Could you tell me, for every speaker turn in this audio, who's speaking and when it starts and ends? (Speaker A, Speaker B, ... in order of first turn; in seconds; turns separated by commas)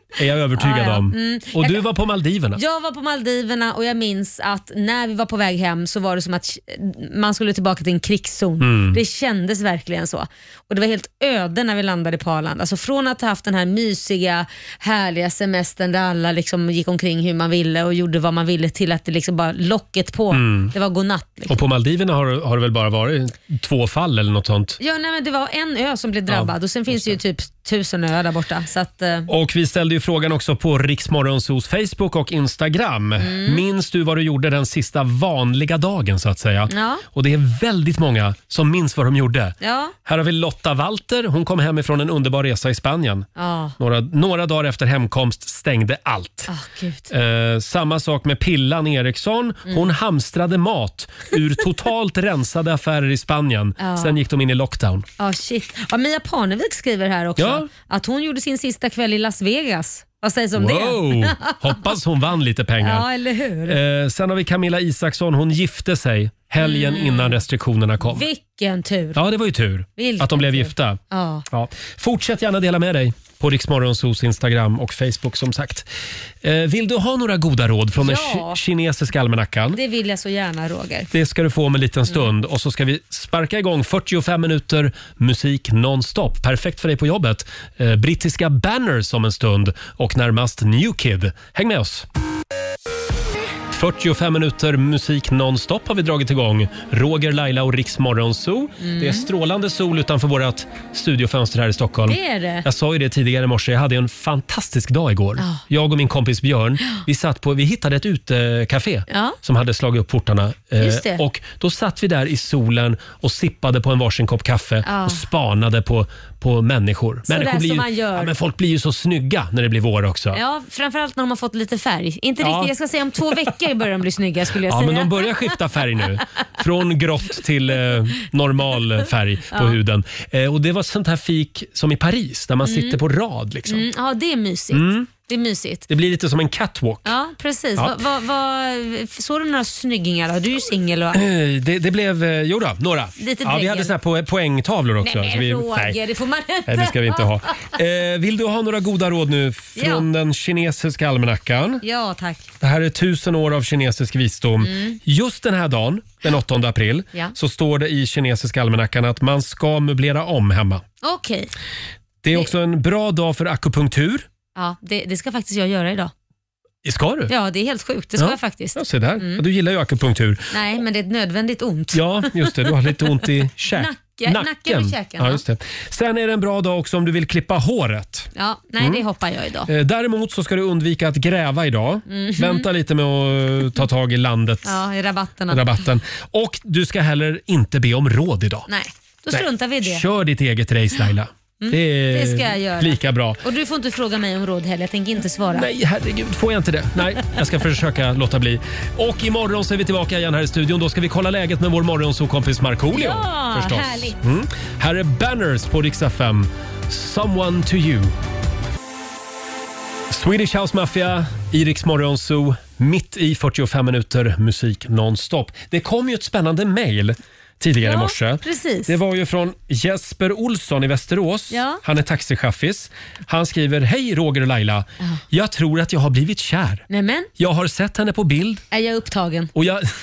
Speaker A: 0.2-2.6, Speaker B: 0.6-1.8, Speaker B: 2.5-21.6, Speaker A: 8.6-9.0, Speaker A: 20.3-20.7, Speaker A: 21.5-24.8, Speaker B: 24.8-29.3, Speaker A: 26.3-27.1, Speaker A: 29.3-43.3, Speaker B: 33.2-33.6, Speaker B: 36.7-37.0, Speaker B: 39.6-39.9, Speaker B: 43.4-43.8, Speaker A: 43.8-46.5, Speaker B: 46.5-47.1, Speaker A: 47.1-55.1, Speaker B: 53.8-54.2, Speaker B: 55.2-61.8, Speaker A: 57.4-57.7, Speaker A: 60.6-63.1, Speaker B: 62.8-63.8, Speaker A: 63.7-68.3, Speaker B: 66.6-67.4, Speaker B: 68.0-69.2, Speaker A: 69.2-71.0, Speaker B: 70.0-71.4, Speaker A: 71.5-75.9, Speaker A: 76.4-79.8, Speaker B: 78.0-78.6, Speaker B: 79.7-81.1, Speaker A: 81.1-92.0, Speaker A: 93.7-120.4, Speaker B: 98.8-99.3, Speaker B: 102.1-102.7, Speaker B: 105.4-105.6, Speaker B: 109.1-109.4, Speaker B: 110.8-111.2, Speaker B: 114.8-115.2, Speaker B: 117.3-118.3, Speaker B: 120.3-125.6, Speaker A: 122.4-122.7, Speaker A: 124.7-133.9, Speaker B: 129.5-129.8, Speaker B: 132.6-133.0, Speaker B: 133.7-135.9, Speaker A: 134.7-135.1, Speaker A: 135.9-137.1, Speaker B: 137.1-141.2, Speaker A: 141.1-146.0, Speaker B: 143.2-143.9, Speaker B: 145.0-147.7, Speaker A: 146.7-151.8, Speaker B: 149.8-150.1, Speaker B: 151.8-152.5, Speaker A: 152.6-160.8, Speaker B: 154.6-155.0, Speaker B: 161.0-161.5, Speaker A: 162.2-164.3, Speaker B: 164.6-166.1, Speaker A: 166.8-167.3, Speaker B: 167.3-169.4, Speaker A: 168.2-170.5, Speaker B: 170.5-172.7, Speaker A: 171.9-179.0, Speaker B: 173.7-175.4, Speaker B: 178.4-179.7, Speaker A: 179.7-184.8, Speaker B: 182.1-182.7, Speaker B: 184.6-185.7, Speaker A: 185.5-188.7, Speaker B: 188.7-190.1, Speaker A: 189.3-193.4, Speaker B: 191.6-195.7, Speaker A: 195.6-208.1, Speaker B: 202.9-204.2, Speaker A: 210.1-226.8, Speaker B: 217.8-219.0, Speaker B: 221.5-221.8, Speaker B: 226.9-227.3, Speaker A: 227.4-228.6, Speaker B: 228.7-229.5, Speaker A: 229.6-229.9